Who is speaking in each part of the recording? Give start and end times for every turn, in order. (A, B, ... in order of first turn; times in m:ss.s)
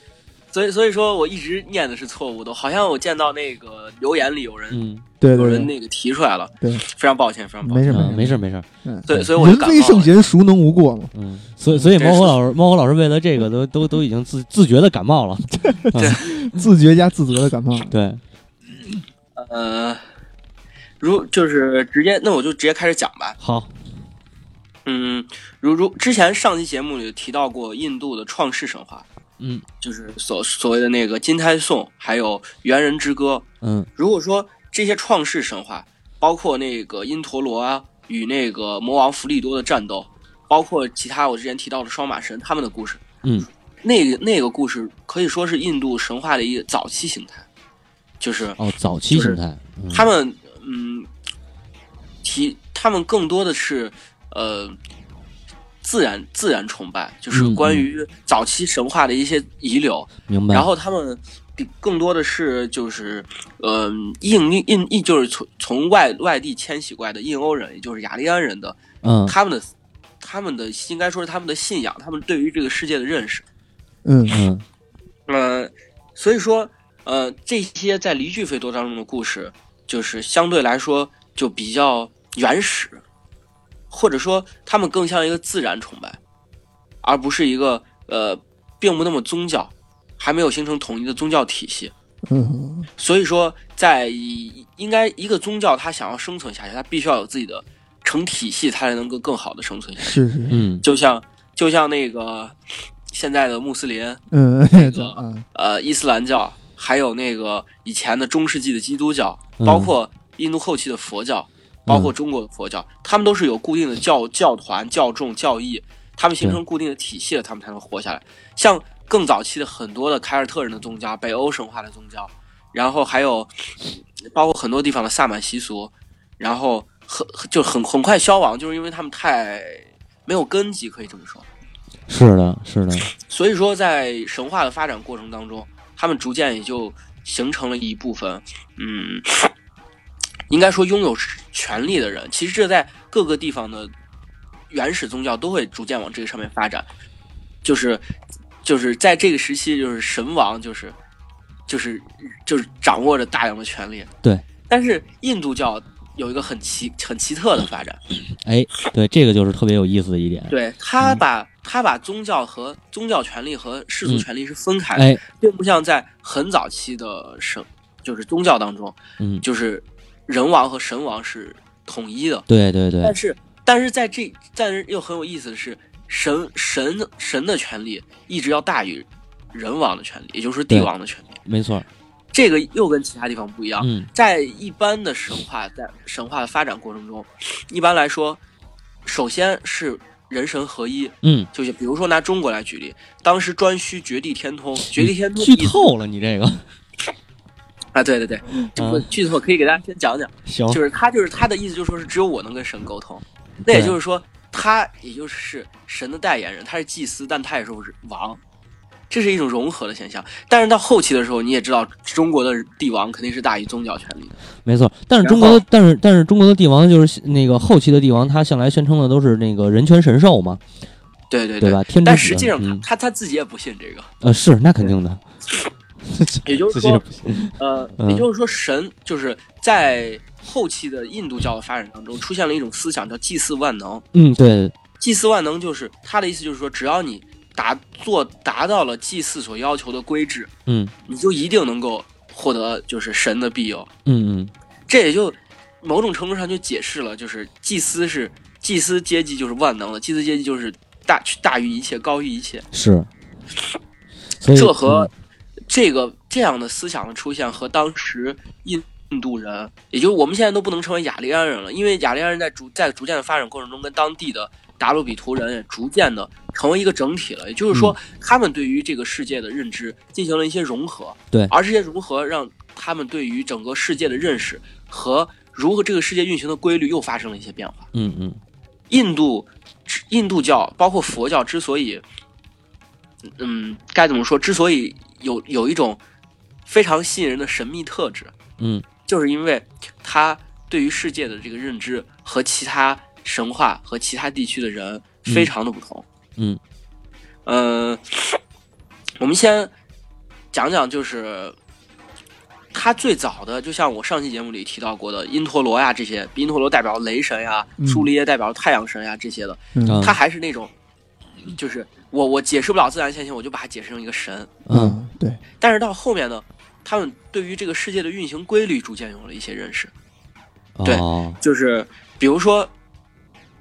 0:00.5-0:08.0 A
0:04.7-0:05.1 B
0:05.2-0:05.7 C
0:07.6-0:11.1 C
0:07.9-0:08.6 B
0:09.1-0:10.1 A
0:11.1-0:16.2 B
0:12.0-0:12.4 A
0:15.6-0:17.9 C
0:16.0-0:16.3 A
0:17.9-0:18.2 B
0:19.4-0:20.0 A
0:21.0-0:23.4 A
0:23.4-0:23.7 B
0:24.9-0:29.1 A
0:29.8-0:33.4 A
0:33.6-0:33.9 B
0:34.0-0:43.0 A
0:43.8-0:47.5 A
0:48.2-0:48.6 A
0:48.6-0:50.1 B
0:49.1-0:49.4 A
0:49.9-0:51.1 A
0:52.2-0:54.8 A
0:55.8-1:09.7 A
0:57.3-0:57.8 B
1:00.3-1:00.7 B
1:09.0-1:09.4 B
1:10.2-1:13.5 A
1:14.0-1:14.4 C
1:14.3-1:14.6 B
1:15.3-1:23.0 A
1:23.9-1:26.2 A
1:27.0-1:31.9 A
1:32.2-1:32.9 C
1:33.0-1:40.2 A
1:40.0-1:40.6 C
1:40.5-1:40.8 B
1:40.8-1:42.6 A
1:43.1-1:44.2 A
1:44.3-1:45.5 C
1:44.7-2:03.5 A
1:49.6-1:49.9 B
1:51.9-1:52.1 B
2:04.2-2:11.5 A
2:12.1-2:13.1 B
2:13.2-2:19.5 A
2:20.5-2:23.9 A
2:24.7-2:26.9 A
2:27.6-2:28.0 A
2:28.6-2:31.0 A
2:31.7-2:34.1 A
2:34.7-2:38.0 A
2:38.4-2:41.2 B
2:40.5-2:52.5 A
2:45.0-2:45.2 B
2:49.2-2:49.4 B
2:52.5-2:53.2 B
2:53.0-3:01.4 A
3:01.4-3:01.9 B
3:02.3-3:08.4 A
3:03.8-3:04.1 B
3:09.0-3:15.9 A
3:11.2-3:11.5 B
3:14.9-3:16.6 B
3:18.0-3:28.4 A
3:18.5-3:19.1 B
3:20.5-3:20.8 B
3:23.7-3:24.0 B
3:29.1-3:34.4 A
3:34.6-3:40.6 B
3:35.2-3:35.6 A
3:41.3-3:44.1 A
3:41.6-3:42.9 B
3:44.2-3:45.2 B
3:46.1-3:48.3 B
3:46.4-3:54.0 A
3:54.1-3:54.7 B
3:55.0-4:00.5 A
4:00.7-4:00.9 B
4:01.0-4:03.9 A
4:04.1-4:04.5 B
4:04.9-4:12.7 A
4:12.7-4:13.1 B
4:14.4-4:15.1 B
4:14.5-4:15.1 A
4:15.7-4:37.9 A
4:27.7-4:28.0 B
4:37.9-4:38.4 B
4:38.9-4:42.0 A
4:43.4-4:46.0 A
4:46.7-4:48.4 A
4:48.6-4:48.9 B
4:49.0-4:56.0 A
4:55.3-4:55.5 B
4:57.5-4:58.4 A
4:59.2-4:59.7 A
5:00.5-5:01.6 A
5:02.7-5:10.7 A
5:07.8-5:08.1 C
5:09.8-5:10.0 C
5:09.9-5:10.2 B
5:11.5-5:14.5 A
5:14.7-5:15.4 C
5:14.7-5:15.0 B
5:15.6-5:19.9 A
5:20.8-5:21.4 B
5:20.8-5:22.7 A